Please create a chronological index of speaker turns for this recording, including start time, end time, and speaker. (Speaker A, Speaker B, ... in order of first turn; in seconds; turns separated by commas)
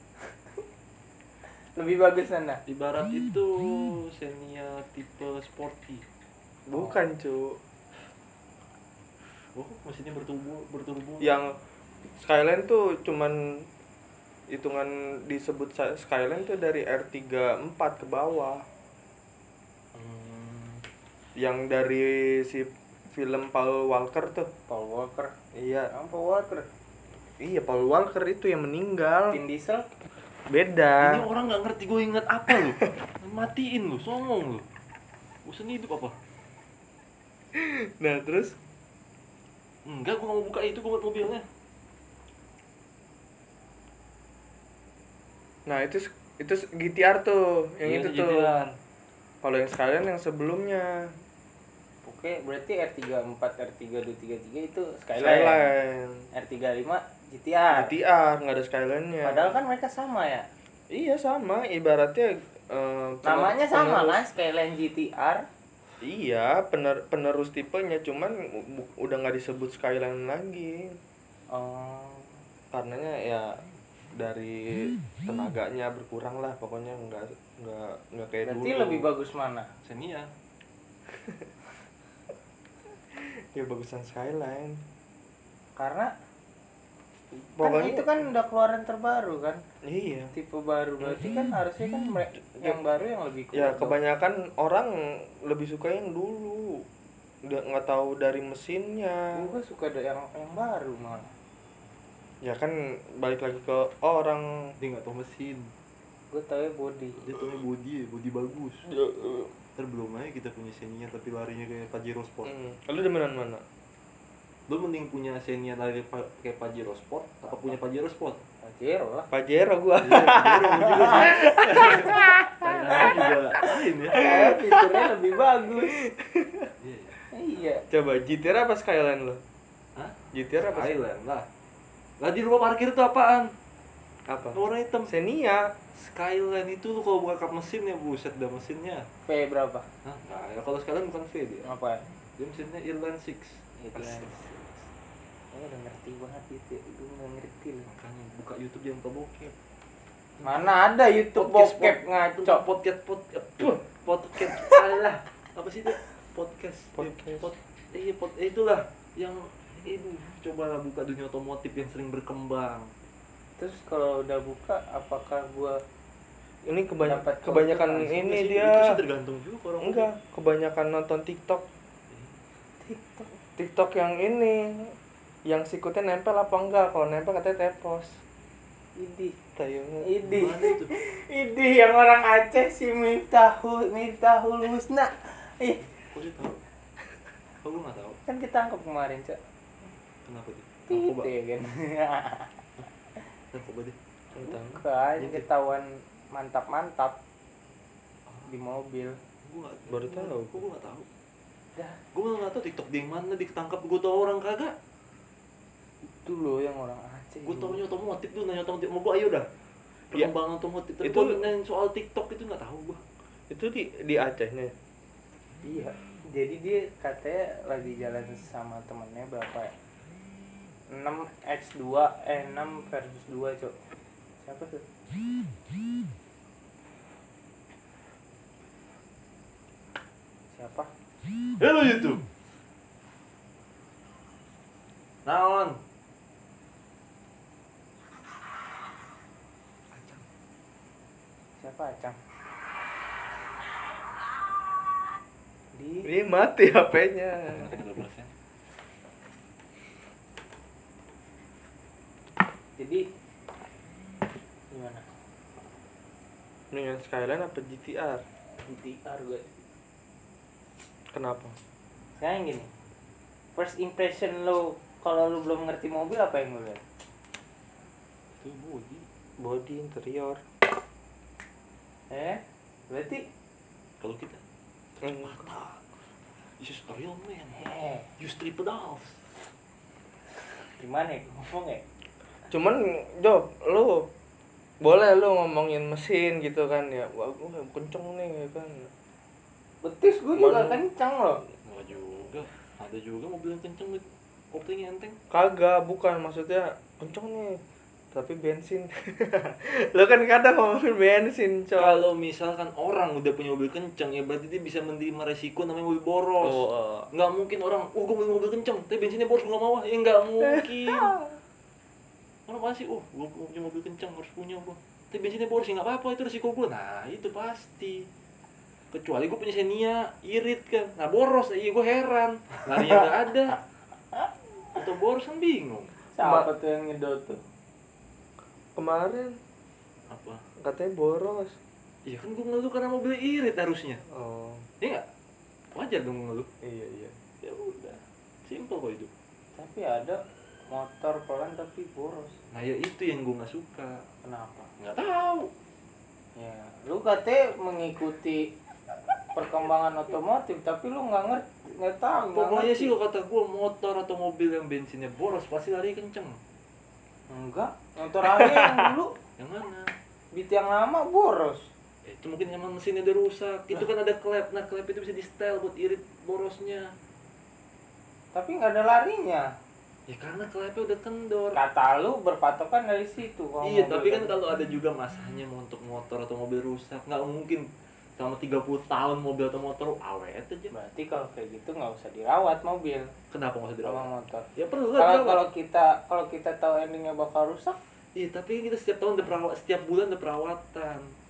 Speaker A: 1.8-2.6, Speaker B: 2.7-6.0, Speaker C: 6.7-7.6, Speaker A: 6.7-7.0, Speaker B: 9.6-11.4, Speaker C: 11.2-11.6, Speaker C: 12.1-13.7, Speaker C: 14.5-18.6, Speaker B: 19.9-20.8, Speaker C: 21.4-24.5, Speaker A: 24.7-25.3, Speaker C: 25.5-25.9, Speaker A: 25.9-26.7, Speaker C: 27.4-29.4, Speaker A: 29.3-29.9, Speaker C: 30.5-31.3, Speaker B: 31.0-34.6, Speaker B: 35.5-36.1, Speaker C: 37.5-38.6, Speaker B: 39.9-41.4, Speaker C: 45.7-48.5, Speaker B: 47.9-48.7, Speaker C: 49.4-51.1, Speaker A: 52.0-55.7, Speaker C: 55.2-56.3, Speaker A: 56.3-57.9, Speaker C: 57.7-59.5, Speaker A: 59.2-60.5, Speaker C: 60.9-64.2, Speaker A: 63.2-65.5, Speaker C: 66.0-71.0, Speaker A: 71.5-72.4, Speaker C: 72.7-73.5, Speaker C: 74.1-79.1, Speaker A: 78.5-79.7, Speaker B: 79.8-80.3, Speaker C: 83.1-84.8, Speaker A: 85.8-86.1, Speaker C: 87.5-88.2, Speaker A: 87.6-89.6, Speaker C: 89.8-90.3, Speaker A: 90.3-94.0, Speaker C: 93.5-96.8, Speaker C: 97.5-99.5, Speaker A: 99.3-101.3, Speaker C: 102.4-104.5, Speaker B: 104.8-105.7, Speaker A: 106.3-107.2, Speaker B: 107.2-108.9, Speaker C: 108.9-109.5, Speaker B: 109.8-112.5, Speaker C: 112.5-113.6, Speaker B: 114.7-118.4, Speaker A: 118.6-119.3, Speaker C: 119.3-123.2, Speaker B: 120.0-124.2, Speaker A: 121.8-122.3, Speaker C: 124.1-125.1, Speaker A: 124.1-126.1, Speaker C: 126.1-126.7, Speaker B: 126.8-127.2, Speaker A: 127.3-127.8, Speaker C: 127.9-129.4, Speaker B: 130.0-131.4, Speaker C: 130.3-130.9, Speaker B: 132.2-133.5, Speaker C: 134.3-135.7, Speaker B: 134.5-135.1, Speaker B: 135.9-139.1, Speaker A: 139.3-139.9, Speaker B: 140.0-141.7, Speaker A: 141.7-142.0, Speaker B: 142.4-143.6, Speaker A: 143.8-144.6, Speaker C: 144.0-144.3, Speaker A: 145.5-147.9, Speaker B: 147.9-149.6, Speaker B: 150.4-150.7, Speaker A: 150.4-152.7, Speaker B: 151.3-162.9, Speaker C: 157.0-157.5, Speaker A: 163.6-165.8, Speaker C: 166.7-168.9, Speaker A: 167.0-168.2, Speaker B: 168.1-170.1, Speaker C: 169.8-171.7, Speaker B: 172.1-172.4, Speaker A: 172.8-173.3, Speaker C: 173.6-175.0, Speaker C: 175.5-178.2, Speaker A: 179.0-179.4, Speaker C: 179.6-180.1, Speaker A: 180.0-185.8, Speaker B: 180.2-180.9, Speaker B: 186.0-186.6, Speaker B: 187.6-188.2, Speaker A: 188.3-189.4, Speaker B: 190.2-191.3, Speaker A: 190.9-192.6, Speaker B: 193.5-194.0, Speaker C: 194.4-194.8, Speaker A: 194.4-197.2, Speaker B: 195.2-195.5, Speaker A: 198.5-199.2, Speaker B: 199.4-201.1, Speaker C: 199.9-200.7, Speaker A: 201.8-202.0, Speaker B: 202.1-204.7, Speaker A: 206.1-207.8, Speaker B: 207.4-209.5, Speaker B: 210.1-213.0, Speaker C: 211.0-211.5, Speaker C: 213.5-214.7, Speaker A: 215.6-219.7, Speaker A: 220.9-223.8, Speaker A: 224.4-224.8, Speaker A: 230.5-230.9, Speaker B: 231.6-232.2, Speaker B: 235.2-235.8, Speaker A: 241.6-242.2, Speaker A: 245.7-246.1, Speaker C: 246.1-247.7, Speaker B: 247.5-248.3, Speaker A: 252.8-253.1, Speaker A: 254.7-255.0, Speaker C: 256.7-258.2, Speaker A: 258.6-259.6, Speaker C: 261.1-261.6, Speaker A: 262.2-262.7, Speaker A: 263.6-266.8, Speaker B: 268.4-269.1, Speaker C: 269.4-270.4, Speaker A: 272.1-273.2, Speaker B: 274.0-274.4, Speaker C: 275.0-275.4, Speaker B: 275.0-275.8, Speaker B: 276.6-279.2, Speaker A: 277.6-278.1, Speaker A: 280.5-281.8, Speaker C: 282.5-284.1, Speaker C: 284.8-288.9, Speaker A: 289.8-291.4, Speaker C: 290.4-290.8, Speaker B: 291.6-295.2, Speaker C: 295.3-297.6, Speaker C: 298.1-302.0, Speaker B: 301.8-311.2, Speaker C: 306.4-307.1, Speaker C: 310.6-311.2, Speaker B: 312.5-318.1, Speaker B: 318.9-323.6, Speaker B: 324.7-326.0, Speaker A: 326.1-327.4, Speaker C: 326.2-326.5, Speaker C: 328.8-329.4, Speaker B: 330.1-330.4, Speaker C: 330.6-331.6, Speaker B: 332.1-334.0, Speaker C: 334.1-334.7, Speaker B: 335.7-336.5, Speaker C: 336.6-337.2, Speaker B: 337.4-339.1, Speaker A: 339.6-342.4, Speaker B: 342.5-344.0, Speaker A: 344.2-344.7, Speaker B: 344.8-345.5, Speaker A: 346.4-348.5, Speaker A: 349.3-352.9, Speaker B: 352.3-356.4, Speaker A: 357.3-359.1, Speaker B: 358.2-359.9, Speaker A: 360.3-361.7, Speaker B: 362.1-366.9, Speaker A: 368.3-369.5, Speaker B: 370.1-371.6, Speaker A: 371.5-374.4, Speaker B: 373.6-377.7, Speaker B: 378.2-380.7, Speaker A: 380.7-383.1, Speaker B: 383.3-385.4, Speaker A: 383.8-387.8, Speaker B: 388.2-391.1